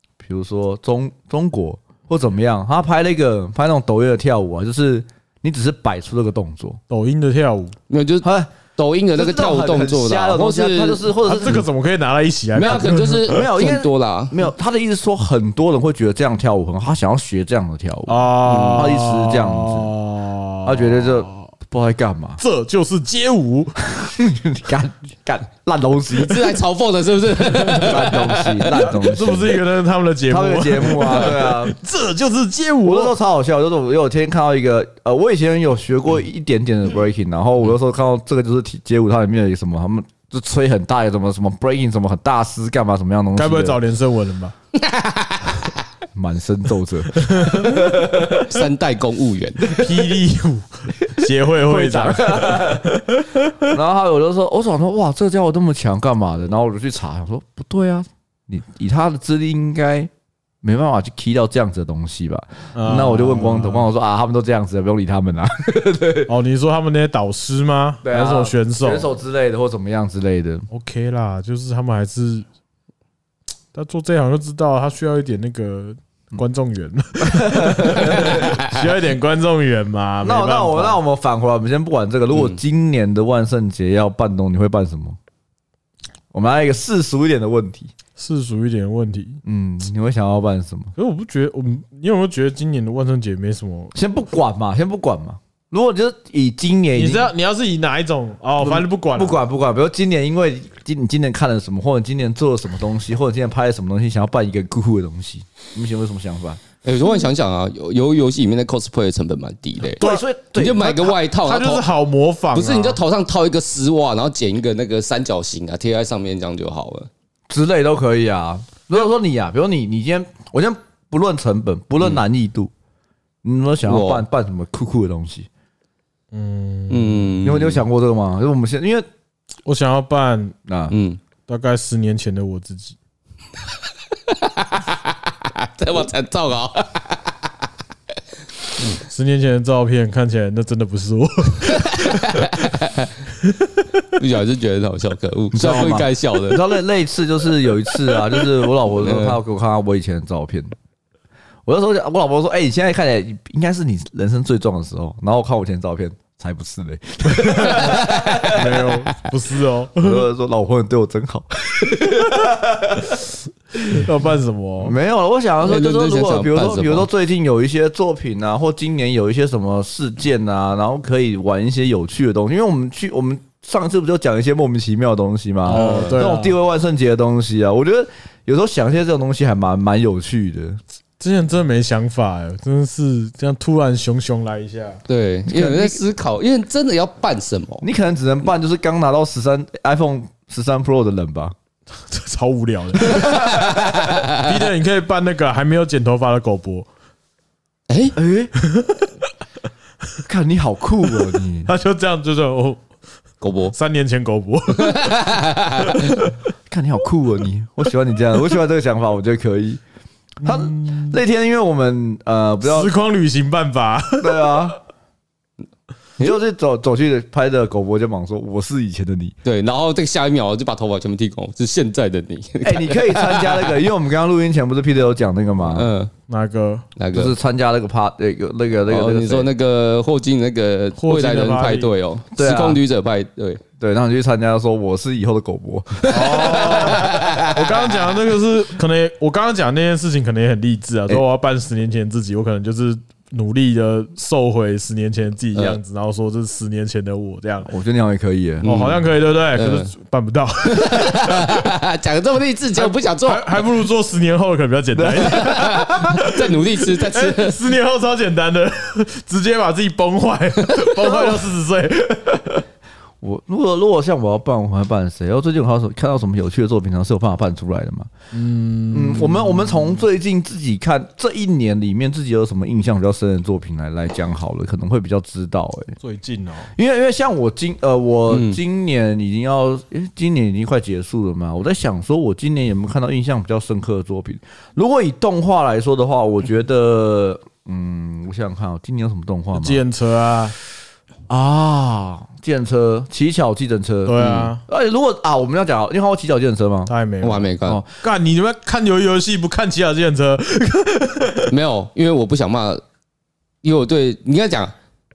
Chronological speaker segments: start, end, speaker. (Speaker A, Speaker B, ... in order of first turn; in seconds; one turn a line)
Speaker A: 0.2-6.8
Speaker B: 6.9-7.8
Speaker C: 7.9-11.0
Speaker A: 8.2-8.5
Speaker A: 9.1-11.7
Speaker B: 11.2-13.4
Speaker C: 12.6-14.4
Speaker A: 12.6-19.9
Speaker B: 18.1-21.5
Speaker C: 18.4-18.9
Speaker A: 20.6-22.4
Speaker B: 22.4-23.8
Speaker A: 23.9-26.6
Speaker C: 26.1-28.7
Speaker B: 27.6-27.9
Speaker A: 27.7-29.6
Speaker B: 28.7-33.1
Speaker A: 30.3-31.8
Speaker A: 32.8-43.8
Speaker B: 43.4-44.5
Speaker C: 44.8-45.5
Speaker A: 46.1-48.6
Speaker B: 47.1-47.8
Speaker C: 48.3-49.7
Speaker A: 49.7-50.0
Speaker B: 49.7-53.7
Speaker A: 51.6-60.1
Speaker A: 60.6-66.3
Speaker B: 62.8-63.9
Speaker B: 66.3-69.1
Speaker A: 68.0-70.7
Speaker B: 70.7-72.5
Speaker B: 73.7-81.0
Speaker A: 77.2-78.6
Speaker A: 80.2-85.2
Speaker A: 86.3-87.9
Speaker B: 88.2-89.4
Speaker A: 89.4-90.9
Speaker B: 91.0-93.9
Speaker A: 93.9-97.3
Speaker B: 97.0-99.4
Speaker A: 98.6-106.6
Speaker C: 106.8-111.8
Speaker A: 110.0-111.2
Speaker B: 110.0-110.2
Speaker B: 111.4-113.0
Speaker C: 112.5-117.1
Speaker A: 117.5-122.7
Speaker A: 123.4-125.5
Speaker C: 123.9-124.2
Speaker B: 126.3-127.3
Speaker C: 126.9-127.8
Speaker A: 127.4-129.1
Speaker B: 129.7-130.6
Speaker A: 130.7-130.9
Speaker C: 130.9-131.2
Speaker B: 131.5-133.0
Speaker C: 134.3-137.3
Speaker B: 139.1-142.5
Speaker C: 141.7-143.1
Speaker B: 143.4-143.8
Speaker C: 144.2-146.7
Speaker A: 145.5-150.7
Speaker C: 148.1-149.4
Speaker A: 151.7-158.8
Speaker B: 157.4-160.3
Speaker C: 157.6-158.7
Speaker A: 160.0-163.2
Speaker B: 163.8-165.0
Speaker A: 164.8-180.8
Speaker C: 165.6-167.1
Speaker B: 175.7-176.6
Speaker C: 175.7-176.2
Speaker B: 181.2-185.0
Speaker C: 185.1-187.8
Speaker A: 185.5-186.0
Speaker A: 187.8-191.6
Speaker B: 192.1-193.6
Speaker A: 193.0-193.8
Speaker C: 193.2-194.4
Speaker B: 194.3-196.9
Speaker C: 197.9-198.2
Speaker A: 198.2-198.5
Speaker B: 198.6-199.1
Speaker A: 200.3-201.7
Speaker B: 201.7-202.8
Speaker C: 203.4-203.8
Speaker B: 203.7-206.4
Speaker C: 204.8-206.2
Speaker A: 206.7-209.8
Speaker A: 210.4-212.9
Speaker B: 210.4-211.2
Speaker B: 212.6-214.6
Speaker A: 214.2-214.8
Speaker A: 216.2-219.3
Speaker C: 219.4-223.8
Speaker A: 222.6-225.9
Speaker C: 225.7-226.1
Speaker B: 226.3-226.9
Speaker C: 227.0-227.3
Speaker A: 227.1-229.5
Speaker C: 228.9-233.6
Speaker B: 231.0-231.9
Speaker A: 232.4-232.8
Speaker A: 233.8-237.4
Speaker B: 236.1-247.7
Speaker C: 236.2-237.6
Speaker A: 247.7-248.7
Speaker C: 248.6-249.9
Speaker B: 248.6-251.7
Speaker C: 250.7-253.6
Speaker B: 252.8-256.4
Speaker A: 254.9-255.6
Speaker C: 255.3-257.6
Speaker B: 257.1-262.6
Speaker A: 261.0-261.4
Speaker A: 263.2-268.1
Speaker B: 268.3-270.0
Speaker A: 268.9-276.0
Speaker B: 276.0-276.7
Speaker A: 276.8-289.8
Speaker C: 278.3-278.6
Speaker B: 289.6-290.6
Speaker A: 291.3-296.9
Speaker B: 294.1-294.6
Speaker C: 294.2-294.5
Speaker B: 296.9-297.5
Speaker C: 297.2-297.8
Speaker A: 297.6-297.9
Speaker B: 298.0-301.5
Speaker C: 301.5-302.8
Speaker C: 303.6-304.7